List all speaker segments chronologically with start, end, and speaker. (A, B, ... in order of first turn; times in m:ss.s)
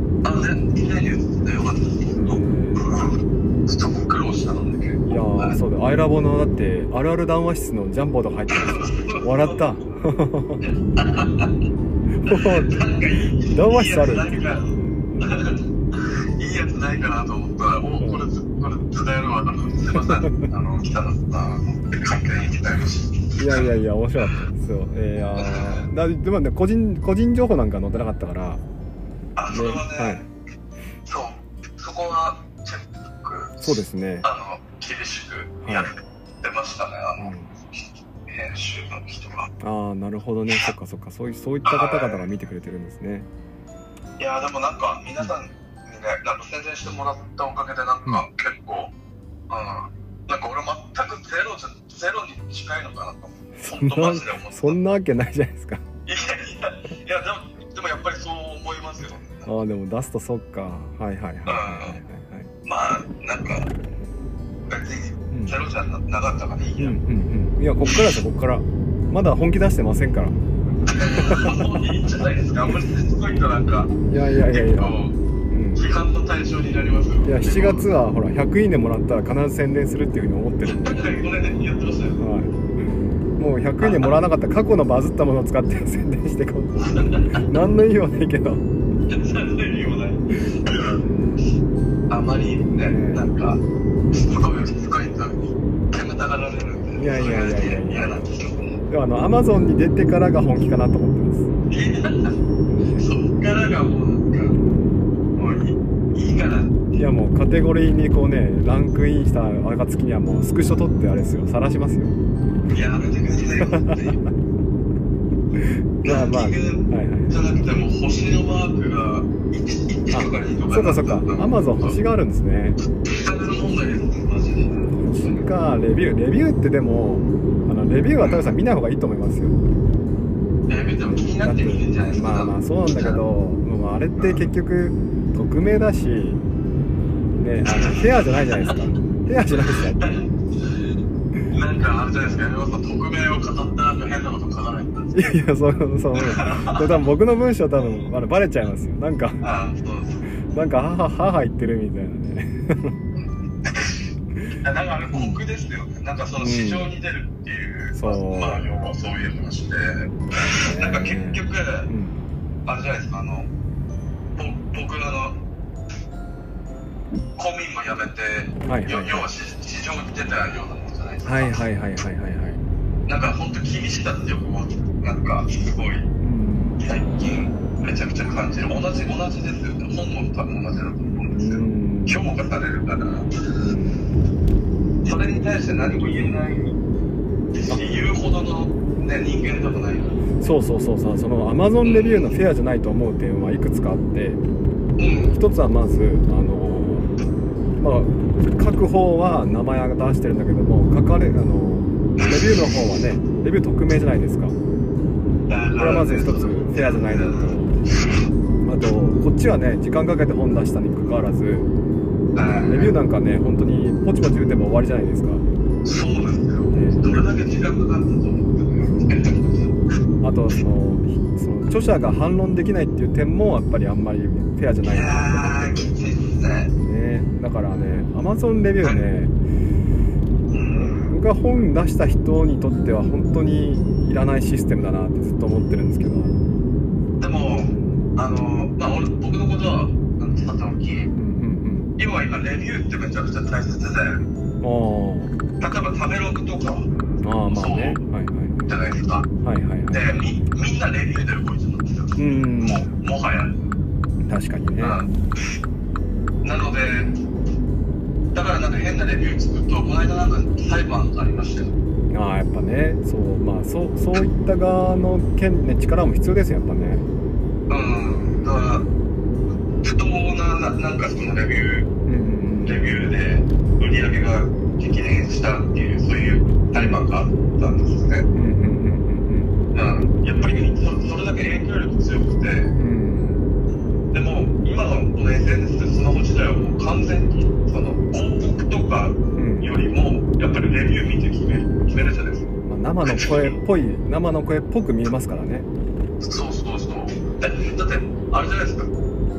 0:00.2-0:05.6 A
0:02.2-0:02.9 B
0:05.1-0:10.6 B
0:08.5-0:09.6 A
0:10.6-0:11.5 A
0:12.2-0:12.9 B
0:12.3-0:23.7 A
0:13.5-0:15.4 B
0:18.0-0:18.2 B
0:19.9-0:20.4 B
0:23.4-0:28.6 B
0:25.4-0:25.8 A
0:29.4-0:30.2 A
0:29.5-0:30.2 B
0:31.0-0:33.7 A
0:33.6-0:34.3 B
0:34.2-0:39.5 A
0:35.6-0:35.9 B
0:37.2-0:37.5 B
0:39.6-0:43.3 B
0:41.6-0:42.2 A
0:44.2-0:48.9 A
0:49.5-0:54.8 A
0:53.6-0:55.8 B
0:56.0-0:59.5 A
0:59.4-1:02.5 B
1:01.4-1:02.0 A
1:02.6-1:03.7 A
1:04.7-1:07.0 A
1:05.3-1:05.6 B
1:06.8-1:11.8 B
1:10.9-1:15.1 A
1:14.1-1:15.0 B
1:15.5-1:15.8 B
1:15.7-1:17.8 A
1:17.2-1:21.0 B
1:20.6-1:22.2 A
1:22.2-1:22.6 B
1:23.4-1:28.6 B
1:23.8-1:24.1 A
1:26.8-1:27.4 A
1:29.1-1:31.0 A
1:31.0-1:31.4 B
1:32.1-1:38.8 A
1:32.7-1:33.2 B
1:37.0-1:38.2 B
1:38.9-1:41.5 B
1:41.7-1:44.6 A
1:45.4-1:47.0 A
1:47.0-1:52.2 B
1:52.7-1:54.2 A
1:53.6-1:54.1 B
1:55.6-1:57.4 B
1:56.0-2:02.0 A
2:00.1-2:02.8 B
2:03.0-2:05.4 A
2:04.9-2:09.6 B
2:10.7-2:13.2 A
2:11.4-2:16.4 B
2:17.4-2:20.2 B
2:17.6-2:18.8 A
2:19.7-2:20.8 A
2:21.5-2:25.3 A
2:25.1-2:29.4 B
2:26.1-2:27.0 A
2:29.4-2:30.2 A
2:30.5-2:33.0 B
2:33.6-2:34.0 A
2:34.6-2:41.9 A
2:35.1-2:35.4 B
2:36.4-2:36.9 B
2:37.9-2:38.6 B
2:40.3-2:42.2 B
2:42.6-2:43.5 A
2:44.4-2:45.4 A
2:47.4-2:51.6 A
2:48.6-2:49.3 B
2:51.2-2:52.6 B
2:53.1-2:56.1 A
2:56.2-2:56.8 B
2:56.8-3:03.4 A
3:01.3-3:02.3 B
3:03.6-3:04.0 B
3:05.0-3:06.8 A
3:07.5-3:10.2 A
3:10.4-3:14.4 B
3:11.8-3:12.3 A
3:15.0-3:15.4 A
3:15.3-3:17.1 B
3:17.8-3:24.6 B
3:22.2-3:22.6 A
3:25.5-3:27.5 A
3:25.8-3:27.8 B
3:28.6-3:31.7 B
3:32.3-3:32.9 A
3:32.6-3:35.4 B
3:35.8-3:39.8 A
3:36.7-3:37.1 B
3:40.2-3:45.9 B
3:44.8-3:46.7 A
3:46.8-3:49.3 B
3:50.5-3:51.1 A
3:50.8-3:56.3 B
3:57.2-4:01.1 A
3:57.6-3:58.1 B
4:01.1-4:01.9 B
4:02.0-4:04.2 A
4:04.6-4:05.4 B
4:05.6-4:06.9 A
4:07.2-4:08.7 B
4:07.5-4:08.0 A
4:08.7-4:09.3 A
4:09.4-4:10.1 B
4:09.9-4:13.6 A
4:12.2-4:12.9 B
4:14.2-4:15.0 B
4:14.8-4:15.1 A
4:16.4-4:17.2 A
4:18.3-4:21.7 A
4:22.1-4:27.1 B
4:27.7-4:28.9 A
4:29.8-4:31.9 A
4:32.0-4:32.9 B
4:32.6-4:38.3 A
4:36.7-4:37.0 B
4:38.3-4:39.5 B
4:39.7-4:42.7 A
4:42.8-4:43.5 B
4:44.1-4:52.5 A
4:49.3-4:49.7 B
4:52.6-4:55.7 B
4:53.0-4:53.6 A
4:56.2-4:58.9 A